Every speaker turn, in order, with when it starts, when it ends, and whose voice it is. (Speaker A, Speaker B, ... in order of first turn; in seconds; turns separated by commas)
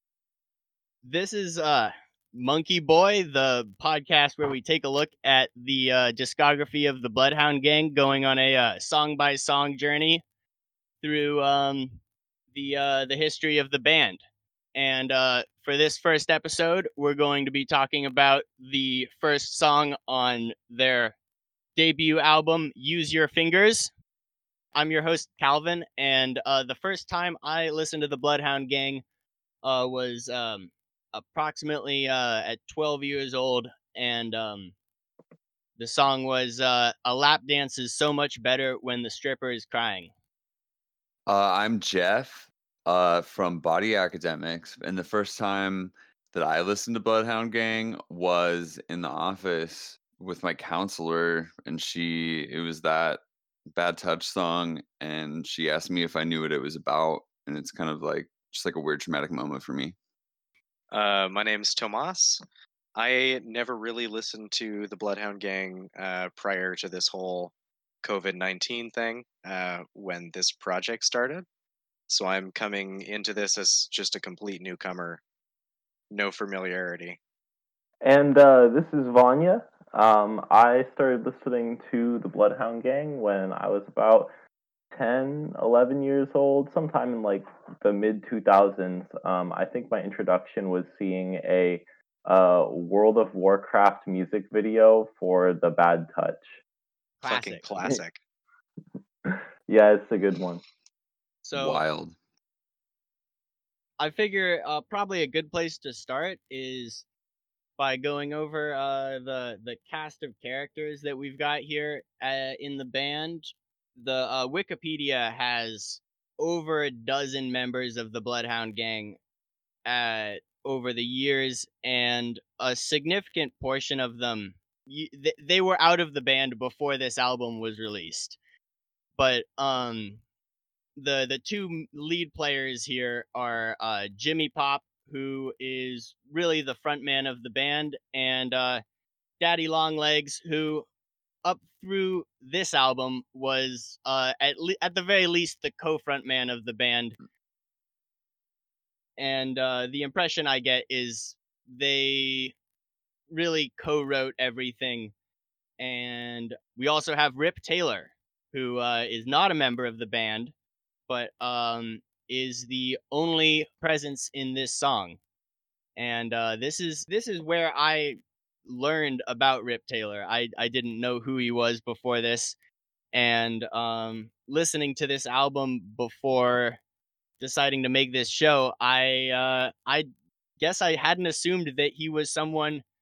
Speaker A: 1.0-10.2, Speaker A: 11.0-12.0, Speaker A: 12.5-14.2, Speaker A: 14.7-21.1, Speaker A: 21.8-23.9, Speaker A: 24.7-29.0, Speaker A: 29.6-34.7, Speaker A: 35.8-40.1, Speaker B: 41.3-60.0, Speaker C: 60.9-62.4, Speaker C: 63.0-71.4, Speaker C: 72.1-75.2, Speaker C: 76.1-77.2, Speaker D: 78.0-84.3, Speaker D: 84.9-96.5, Speaker A: 97.2-97.6, Speaker C: 97.2-98.2, Speaker D: 99.3-100.6, Speaker A: 101.4-101.8, Speaker B: 101.5-102.2, Speaker A: 104.0-107.0, Speaker A: 107.8-119.2, Speaker A: 119.8-128.4, Speaker A: 129.2-130.2, Speaker A: 130.9-138.8, Speaker A: 139.4-140.8, Speaker A: 141.4-147.2, Speaker A: 149.2-152.5, Speaker A: 153.3-155.1, Speaker A: 155.8-160.5, Speaker A: 161.1-165.2, Speaker A: 165.9-172.6, Speaker A: 173.1-176.8, Speaker A: 177.4-180.1, Speaker A: 180.6-182.8